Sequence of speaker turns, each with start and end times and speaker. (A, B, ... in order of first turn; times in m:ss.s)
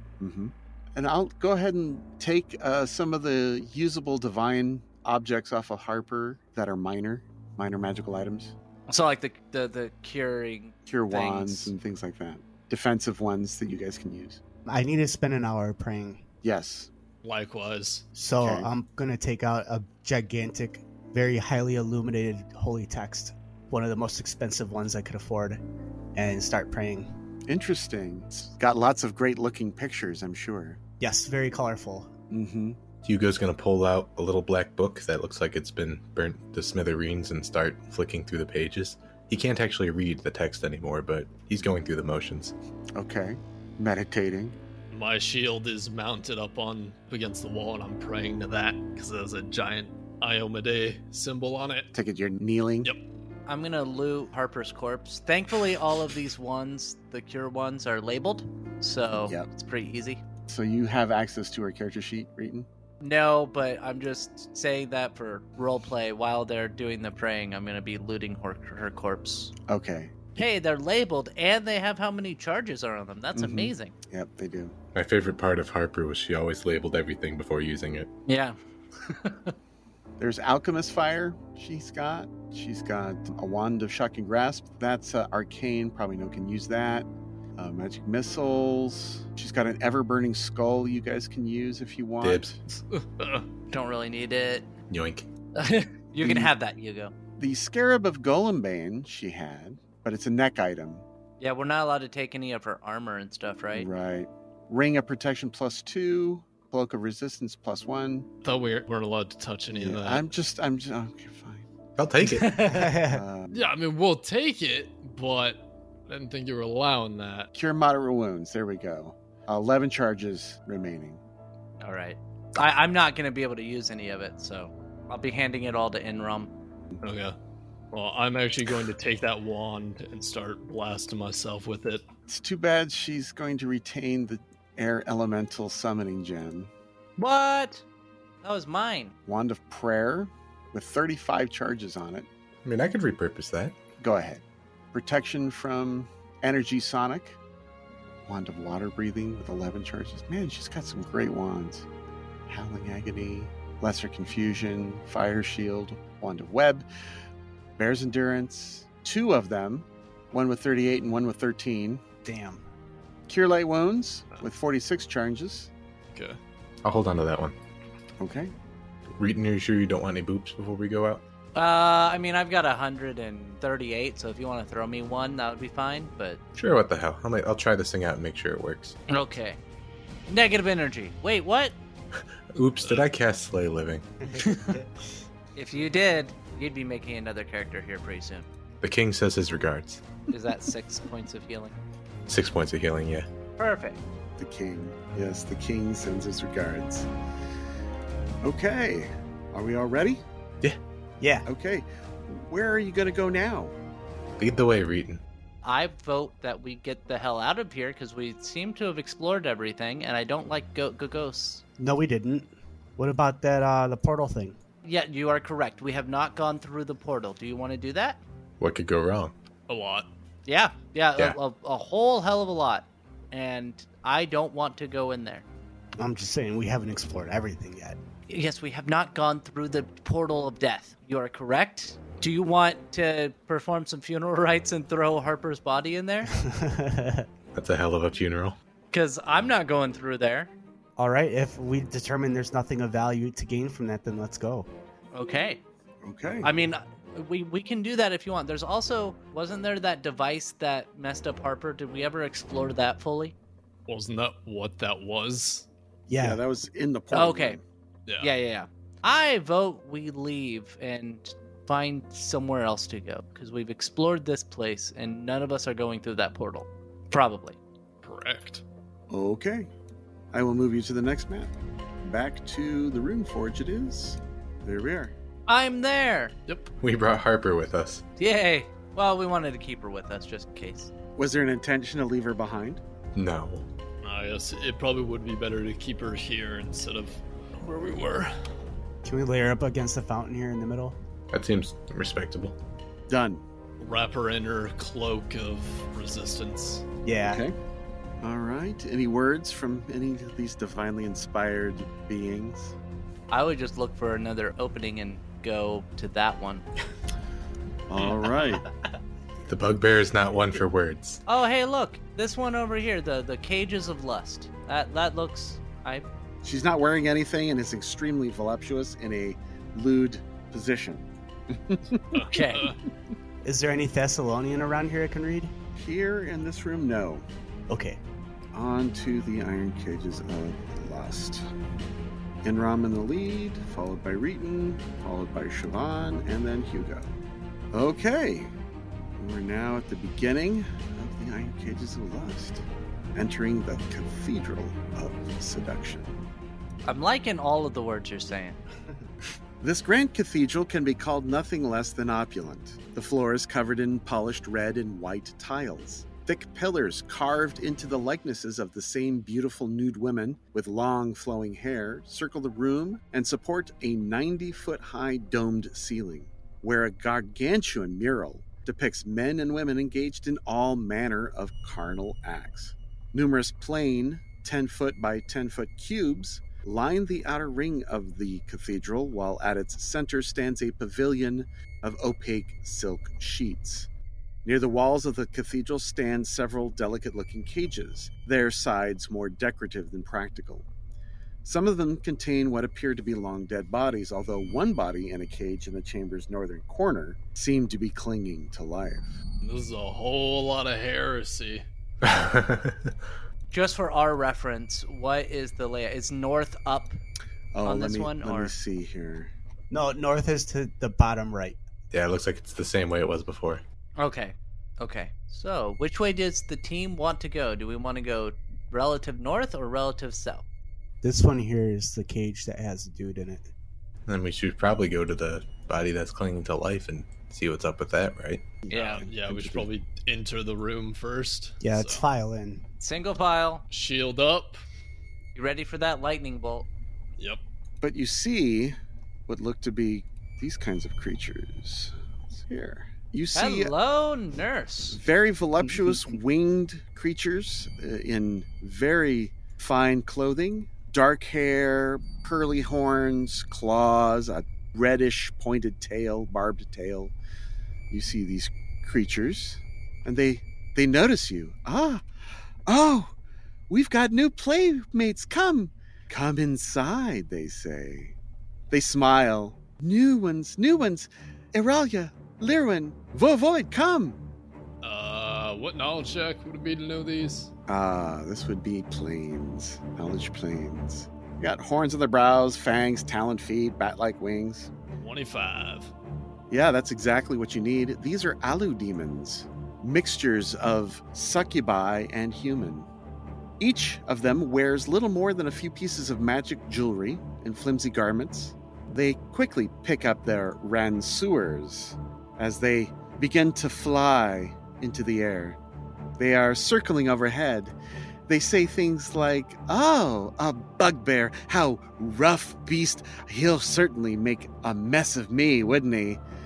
0:00.2-0:08.5 A
0:08.9-0:11.7 B
0:10.9-0:14.4 A
0:14.7-0:16.3 C
0:16.4-0:16.9 A
0:17.2-0:18.0 D
0:18.2-0:25.6 C
0:26.2-0:27.1 C
0:27.5-0:30.8 A
0:31.0-0:32.1 C
0:32.3-0:32.8 A
0:33.0-0:42.5 E
0:43.0-0:44.6 A
0:44.9-0:51.9 D
0:51.9-0:52.9 A
0:53.5-1:00.2 B
1:00.5-1:02.7 A
1:03.0-1:09.5 B
1:09.7-1:10.1 A
1:10.4-1:14.0 B
1:13.3-1:14.8 A
1:15.0-1:18.1 E
1:18.3-1:18.6 B
1:19.1-1:19.5 B
1:20.2-1:32.4 A
1:32.2-1:32.6 E
1:32.9-1:33.4 D
1:33.7-1:34.7 B
1:34.9-1:35.3 E
1:35.6-1:37.1 B
1:36.2-1:36.5 A
1:37.4-1:41.0 A
1:41.4-1:43.9 B
1:43.7-1:48.3 A
1:48.4-1:50.3 D
1:49.7-1:51.7 A
1:52.0-1:52.9 E
1:52.2-1:52.9 B
1:52.6-1:53.2 C
1:53.0-1:53.7 A
1:53.5-1:57.5 D
1:57.5-2:01.2 A
2:01.8-2:06.5 B
2:07.0-2:07.4 D
2:07.9-2:12.0 D
2:12.3-2:16.7 A
2:17.2-2:17.8 B
2:18.4-2:19.2 B
2:19.3-2:22.3 A
2:22.6-2:23.8 E
2:24.0-2:27.4 A
2:28.3-2:31.9 A
2:32.5-2:36.9 A
2:37.8-2:42.0 A
2:42.2-2:42.6 C
2:43.3-2:45.7 A
2:46.1-2:46.4 D
2:46.8-2:47.6 E
2:48.2-2:48.5 A
2:49.2-2:51.2 E
2:51.6-2:56.4 B
2:56.6-2:59.0 E
2:59.1-2:59.6 B
3:00.3-3:01.8 B
3:02.5-3:04.1 E
3:04.4-3:04.8 B
3:05.6-3:08.5 B
3:08.8-3:10.0 E
3:10.3-3:11.8 B
3:12.3-3:13.3 E
3:13.6-3:14.0 B
3:14.4-3:17.1 A
3:18.4-3:20.2 A
3:21.2-3:21.5 C
3:21.5-3:23.8 A
3:24.4-3:25.2 E
3:25.6-3:31.6 B
3:31.8-3:34.6 C
3:34.8-3:38.2 B
3:38.6-3:39.3 E
3:39.7-3:40.1 D
3:40.5-3:45.5 B
3:46.0-3:48.0 C
3:48.3-3:56.3 B
3:56.3-3:57.3 C
3:57.5-3:58.6 E
3:58.9-4:00.5 B
4:01.0-4:04.7 C
4:05.1-4:05.6 B
4:06.0-4:06.5 A
4:06.4-4:13.4 B
4:13.9-4:15.7 D
4:16.1-4:16.4 C
4:16.1-4:17.6 A
4:17.1-4:17.6 B
4:18.2-4:27.6 B
4:28.0-4:28.6 D
4:29.1-4:29.7 A
4:30.3-4:35.1 A
4:35.5-4:36.5 B
4:36.8-4:38.0 E
4:38.2-4:40.9 B
4:41.2-4:42.8 A
4:43.2-4:43.6 E
4:44.0-4:48.3 D
4:49.0-4:51.0 C
4:51.3-4:52.6 E
4:53.1-4:53.4 A
4:53.8-4:56.8 D
4:57.0-4:57.4 C
4:57.2-4:57.6 A
4:58.2-5:02.8 A
5:03.3-5:06.7 B
5:07.9-5:08.6 A
5:09.5-5:11.2 E
5:11.3-5:16.0 B
5:16.4-5:22.2 A
5:22.1-5:22.8 D
5:22.2-5:22.7 B
5:23.4-5:25.5 C
5:25.8-5:27.3 A
5:27.7-5:28.0 C
5:28.5-5:31.4 A
5:32.4-5:37.1 A
5:37.7-5:38.5 A
5:39.2-5:42.6 A
5:43.2-5:46.2 A
5:46.8-5:48.6 B
5:49.6-6:23.9 A
6:24.4-6:30.7 A
6:31.4-6:39.2 A
6:39.4-6:41.6 D
6:42.0-6:43.0 E
6:43.5-6:47.0 B
6:47.5-6:49.3 A
6:47.6-6:48.5 B
6:49.7-6:51.6 C
6:51.9-6:53.6 E
6:54.0-7:00.5 B
7:01.0-7:03.5 C
7:04.1-7:08.5 E
7:08.6-7:09.7 A
7:08.7-7:09.1 B
7:08.7-7:12.0 D
7:11.6-7:12.6 C
7:12.8-7:13.6 B
7:13.7-7:14.6 D
7:15.4-7:16.7 B
7:17.8-7:18.8 A
7:19.3-7:23.7 A
7:23.3-7:25.0 B
7:24.9-7:37.1 A
7:37.9-7:42.1 A
7:42.7-7:43.1 A
7:43.7-7:48.2 A
7:48.7-7:54.2 A
7:54.8-7:57.5 D
7:57.7-8:04.7 A
8:05.0-8:05.9 D
8:06.5-8:12.9 A
8:13.6-8:25.6 A
8:26.2-8:27.8 A
8:28.3-8:36.2 A